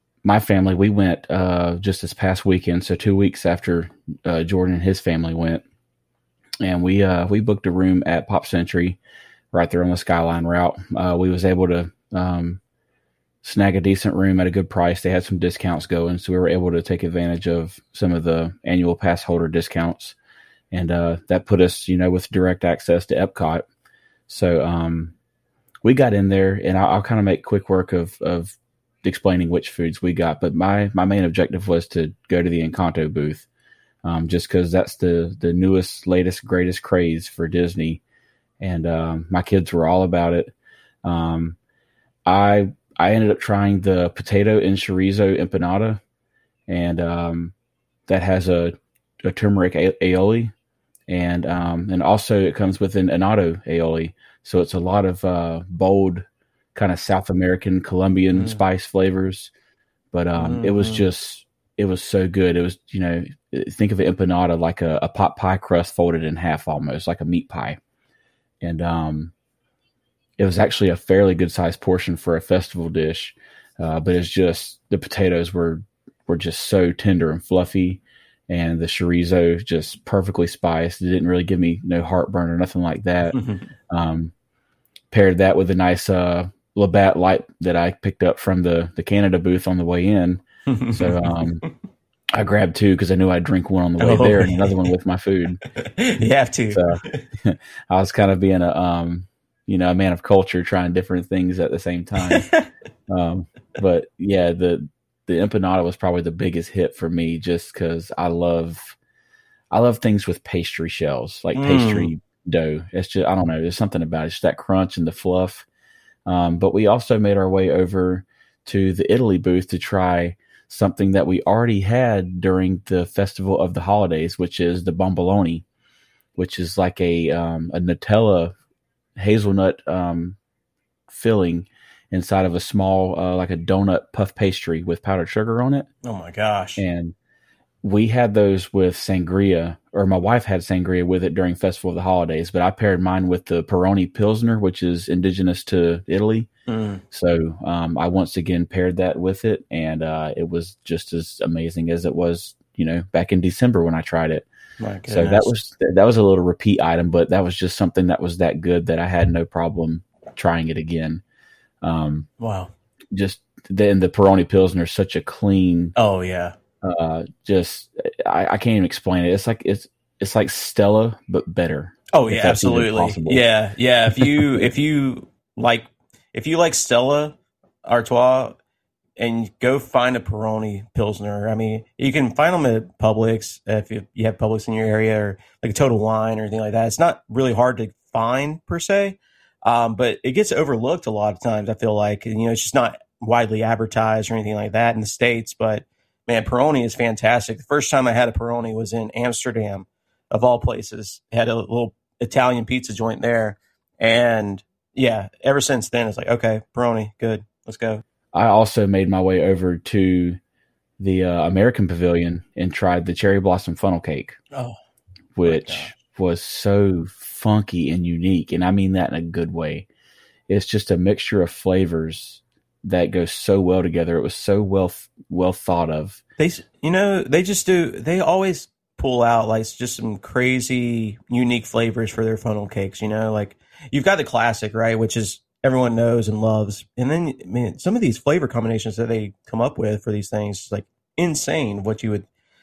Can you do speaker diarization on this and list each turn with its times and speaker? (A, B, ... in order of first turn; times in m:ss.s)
0:00.2-0:05.6 A
0:06.6-0:09.0 A
0:09.5-0:12.6 A
0:13.4-0:20.2 A
0:20.7-0:23.6 A
0:24.3-0:25.1 A
0:25.8-0:33.5 A
0:34.0-0:38.0 A
0:38.6-0:40.5 A
0:41.0-0:41.6 A
0:42.2-0:46.0 A
0:46.7-0:47.5 A
0:48.1-0:50.5 A
0:51.1-0:59.5 A
0:58.3-0:58.6 B
1:00.1-1:07.8 A
1:00.3-1:01.0 B
1:08.6-1:09.3 A
1:10.4-1:24.3 A
1:23.3-1:23.6 B
1:25.1-1:31.6 A
1:30.7-1:31.6 B
1:32.3-1:35.6 A
1:34.0-1:34.7 B
1:35.8-1:37.2 B
1:36.7-1:42.5 A
1:42.2-1:42.6 B
1:43.1-1:49.0 A
1:49.7-1:55.6 A
1:51.5-1:52.1 B
1:56.2-2:05.6 A
2:06.4-2:08.5 A
2:09.2-2:10.4 A
2:11.1-2:15.9 A
2:16.0-2:16.8 B
2:16.8-2:17.1 A
2:17.8-2:26.5 A
2:26.7-2:27.0 B
2:27.1-2:34.4 A
2:34.8-2:35.5 B
2:35.1-2:41.2 A
2:41.8-2:42.3 A
2:42.4-2:42.7 B
2:43.1-2:45.9 A
2:46.0-2:46.5 B
2:46.8-2:53.5 A
2:52.1-2:58.6 B
2:54.1-2:54.6 A
2:59.2-3:28.0 B
3:28.3-3:30.4 A
3:31.0-3:34.4 A
3:35.3-3:39.8 A
3:35.4-3:35.9 B
3:40.5-3:46.2 A
3:46.4-4:02.3 B